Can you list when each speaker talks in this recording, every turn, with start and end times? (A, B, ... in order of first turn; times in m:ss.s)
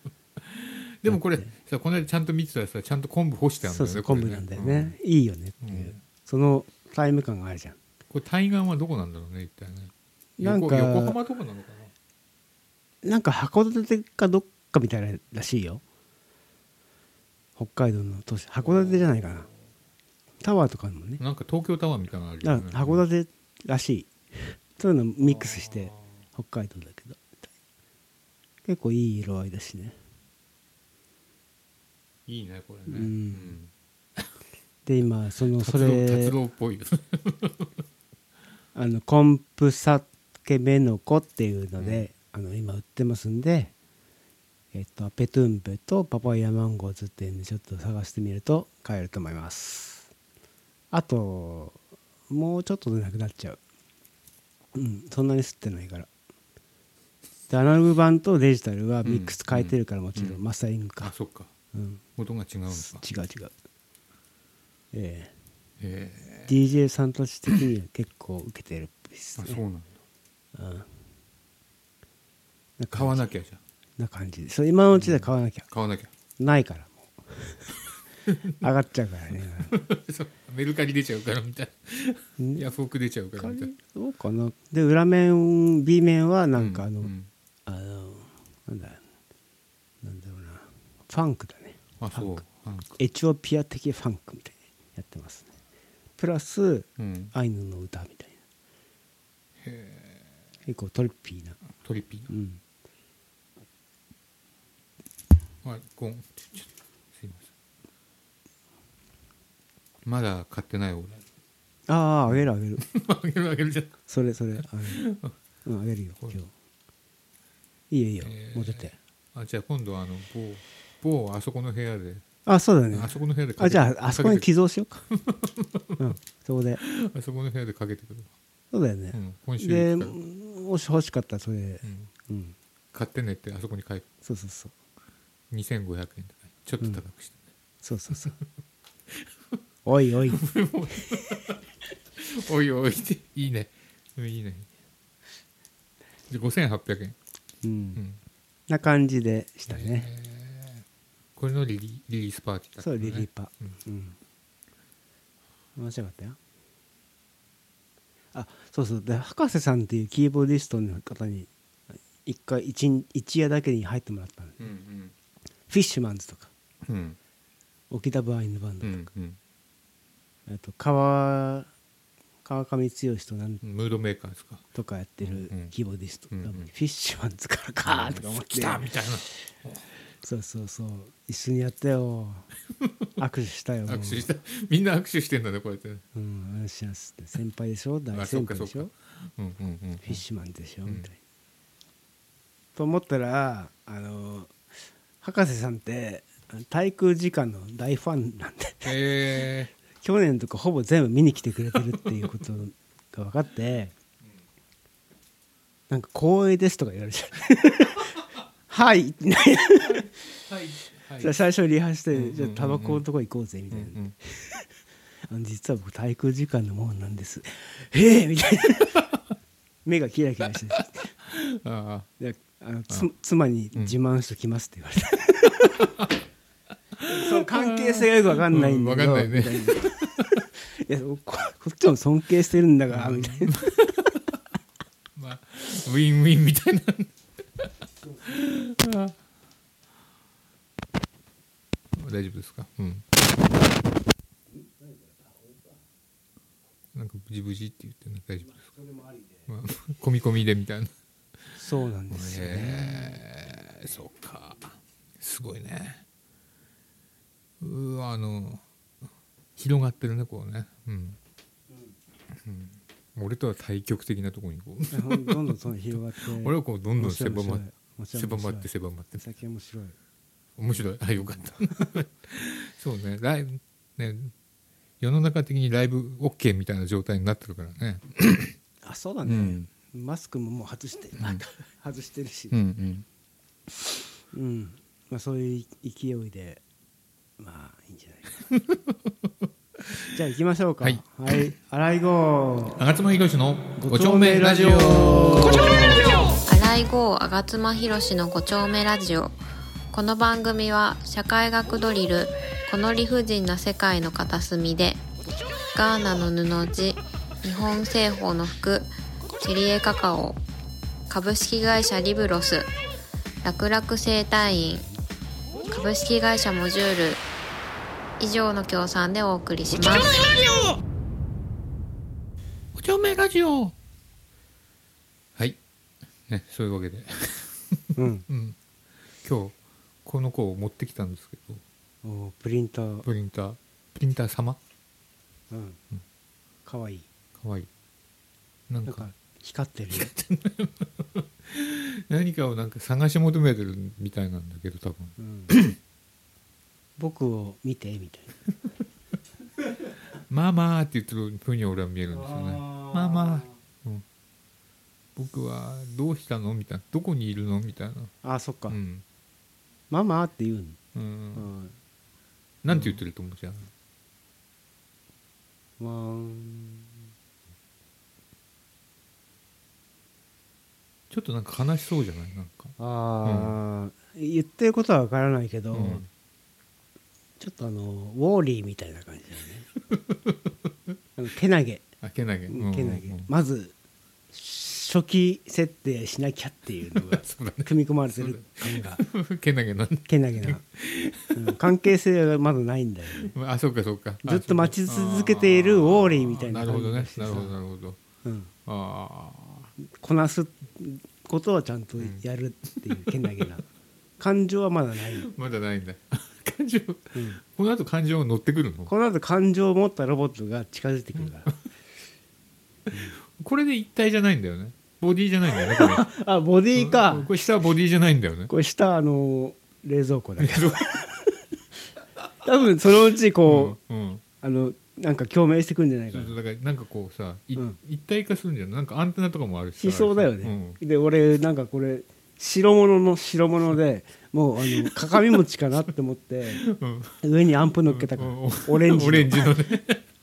0:00.4-0:05.0 A
0:01.0-0:01.5 B
0:03.6-0:07.8 B
0:05.6-0:06.0 A
0:08.1-0:11.9 A
0:10.4-0:11.2 B
0:13.0-0:15.8 B
0:17.6-0:19.5 B
0:18.7-0:19.0 A
0:20.4-0:21.2 B
0:21.2-0:23.0 A
0:22.4-0:27.3 B
0:25.2-0:26.0 A
0:28.6-0:30.0 B
0:32.2-0:34.2 A
0:32.9-0:33.6 B
0:34.8-0:36.4 B
0:35.6-0:37.7 A
0:38.7-0:43.7 B
0:41.8-0:42.0 A
0:44.7-0:50.1 B
0:50.9-0:53.6 B
0:54.7-0:56.1 B
0:57.5-1:01.1 B
0:59.0-1:00.4 A
1:01.0-1:01.5 A
1:01.7-1:02.0 B
1:02.2-1:03.0 A
1:02.7-1:03.5 B
1:04.9-1:05.3 B
1:05.8-1:06.5 A
1:06.5-1:09.6 B
1:09.4-1:09.9 A
1:10.5-1:10.9 B
1:12.8-1:13.2 B
1:12.9-1:13.6 A
1:14.0-1:15.6 B
1:14.9-1:16.1 A
1:16.4-1:17.6 B
1:18.6-1:19.7 B
1:19.7-1:23.7 A
1:22.4-1:22.6 B
1:23.4-1:27.1 B
1:26.6-1:27.3 A
1:27.6-1:29.0 B
1:30.0-1:32.4 B
1:32.0-1:32.9 A
1:33.0-1:35.5 B
1:36.2-1:38.4 B
1:37.0-1:37.3 A
1:39.6-1:40.2 A
1:40.6-1:41.6 B
1:41.8-1:42.3 A
1:42.3-1:42.6 B
1:45.6-1:47.5 A
1:50.0-1:51.2 A
1:51.9-1:52.8 B
1:52.3-1:54.0 A
1:54.1-1:55.0 B
1:54.9-1:55.3 A
1:55.6-1:56.5 B
1:57.9-1:59.0 B
1:58.2-2:02.2 A
2:02.4-2:05.1 B
2:02.9-2:04.5 A
2:05.1-2:06.1 A
2:06.0-2:06.8 B
2:06.8-2:08.3 A
2:08.7-2:12.6 B
2:09.1-2:10.2 A
2:11.8-2:12.1 A
2:12.9-2:14.0 A
2:14.2-2:14.7 B
2:15.5-2:17.5 A
2:17.8-2:18.3 B
2:19.1-2:19.6 A
2:19.8-2:20.4 B
2:20.3-2:24.7 A
2:26.3-2:27.2 A
2:27.6-2:28.0 B
2:28.7-2:30.1 B
2:29.7-2:30.8 A
2:31.4-2:33.3 A
2:32.8-2:34.2 B
2:35.8-2:36.4 B
2:38.3-2:41.5 B
2:42.2-2:44.6 B
2:44.6-2:45.1 A
2:45.7-2:46.5 B
2:46.8-2:47.2 A
2:47.9-2:49.1 B
2:48.8-2:49.4 A
2:50.5-2:51.7 B
2:52.4-2:53.6 B
2:53.6-2:54.6 A
2:54.7-2:58.9 B
2:55.2-2:55.7 A
2:56.3-2:56.7 A
2:57.8-2:59.8 A
3:00.2-3:02.5 B
3:02.8-3:03.1 A
3:03.2-3:04.3 B
3:03.9-3:06.0 A
3:06.1-3:08.9 B
3:08.1-3:10.2 A
3:10.0-3:11.2 B
3:12.7-3:14.5 B
3:15.2-3:18.9 B
3:18.8-3:19.7 A
3:20.0-3:23.9 B
3:25.9-3:30.1 B
3:29.8-3:31.4 A
3:31.2-3:34.6 B
3:32.1-3:33.0 A
3:33.7-3:34.1 A
3:35.3-3:39.0 B
3:39.8-3:41.1 B
3:41.2-3:42.1 A
3:42.2-3:45.8 B
3:45.7-3:46.1 A
3:47.0-3:50.4 A
3:47.0-3:53.8 B
3:52.9-3:54.2 A
3:55.1-3:57.7 A
3:58.0-3:58.3 B
3:58.2-3:59.1 A
4:01.9-4:03.0 A
4:04.5-4:05.8 B
4:06.9-4:08.6 A
4:08.5-4:09.5 B
4:09.5-4:10.9 A
4:11.5-4:13.2 B
4:12.1-4:16.0 A
4:17.6-4:18.6 A
4:19.6-4:21.2 A
4:22.3-4:25.5 A
4:24.9-4:29.9 B
4:26.4-4:29.2 A
4:30.6-4:34.3 A
4:35.0-4:38.6 A
4:38.8-4:42.6 B
4:39.2-4:39.7 A
4:41.2-4:41.5 A
4:42.5-4:43.0 A
4:44.3-4:46.6 B
4:47.4-4:48.3 B
4:48.5-4:49.3 A
4:50.1-4:52.8 B
4:50.8-4:51.5 A
4:52.8-4:56.3 A
4:53.8-4:56.0 B
4:56.4-4:59.4 C
4:59.9-5:05.0 C
5:05.7-5:10.4 C
5:11.1-5:12.7 C
5:13.4-5:14.9 C
5:15.7-5:17.2 C
5:18.2-5:20.2 C
5:22.7-5:23.7 A
5:26.3-5:28.6 A
5:28.0-5:28.3 B
5:29.2-5:31.6 A
5:32.0-5:33.1 B
5:33.0-5:34.6 A
5:35.5-5:35.8 B
5:36.6-5:37.1 B
5:37.4-5:37.7 A
5:38.7-5:39.1 A
5:38.8-5:40.1 B
5:39.9-5:45.8 A
5:45.2-5:45.5 B
5:47.0-5:48.3 B
5:50.3-5:54.0 A
5:52.1-5:53.6 B
5:55.2-5:58.1 A
5:58.2-5:58.8 B
5:58.7-5:59.0 A
5:59.9-6:00.8 B
6:00.9-6:01.5 A
6:01.3-6:01.7 B
6:02.6-6:03.7 A
6:02.7-6:03.0 B
6:05.8-6:07.0 B
6:11.1-6:13.6 A
6:12.8-6:16.0 B
6:15.7-6:16.1 A
6:17.4-6:19.7 B
6:19.9-6:20.5 A
6:21.2-6:21.9 B
6:22.0-6:23.3 A
6:22.5-6:23.7 B
6:24.3-6:29.0 B
6:26.9-6:31.6 A
6:30.1-6:30.6 B
6:31.3-6:33.3 B
6:33.2-6:38.0 A
6:34.2-6:37.5 B
6:38.2-6:38.5 B
6:38.6-6:39.7 A
6:39.9-6:43.6 B
6:44.2-6:45.3 B
6:45.2-6:48.9 A
6:47.1-6:47.4 B
6:48.9-6:51.5 B
6:52.9-6:56.0 A
6:55.6-6:57.3 B
6:56.8-6:58.5 A
6:58.5-7:01.4 B
7:00.4-7:00.8 A
7:02.4-7:03.8 B
7:03.4-7:04.2 A
7:04.4-7:06.3 B
7:06.1-7:10.8 A
7:09.8-7:16.6 B
7:14.7-7:15.2 A
7:16.6-7:17.2 A
7:17.2-7:19.5 B
7:17.8-7:20.0 A